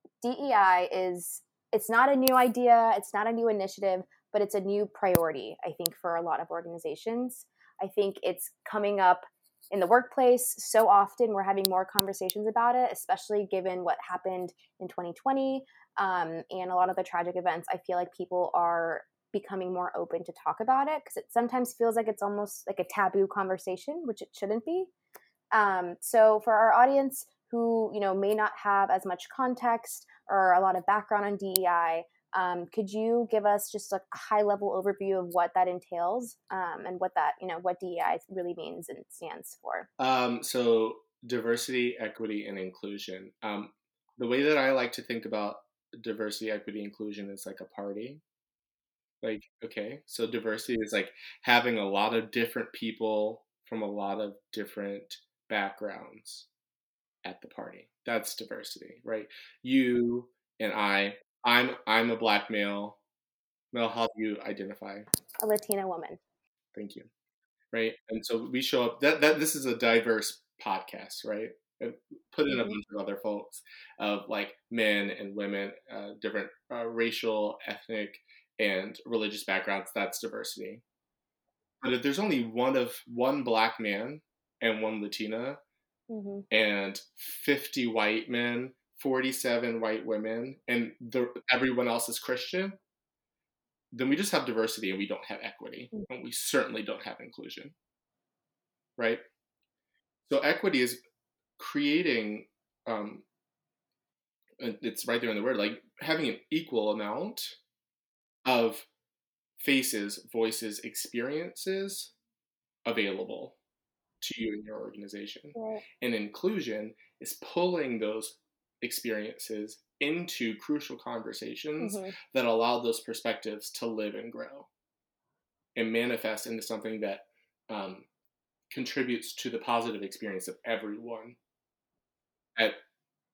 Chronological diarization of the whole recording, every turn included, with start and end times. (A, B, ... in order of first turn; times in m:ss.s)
0:00.2-0:24.9 A
0:25.5-0:39.9 A
0:40.0-0:48.2 B
0:49.2-0:56.5 B
0:57.2-1:03.0 B
1:03.7-1:05.1 B
1:05.4-1:06.2 A
1:06.7-1:07.1 B
1:07.7-1:20.8 B
1:12.5-1:12.8 A
1:21.8-1:25.6 B
1:26.1-1:26.5 A
1:26.5-1:32.8 B
1:33.9-1:37.8 B
1:39.0-1:39.2 B
1:40.3-1:41.0 B
1:41.6-1:43.2 B
1:44.6-1:47.6 B
1:48.4-1:48.9 B
1:49.6-1:52.1 B
1:52.8-1:53.6 B
1:54.2-2:04.7 B
1:55.6-1:55.8 A
2:01.8-2:02.1 A
2:05.8-2:08.1 B
2:08.7-2:11.4 B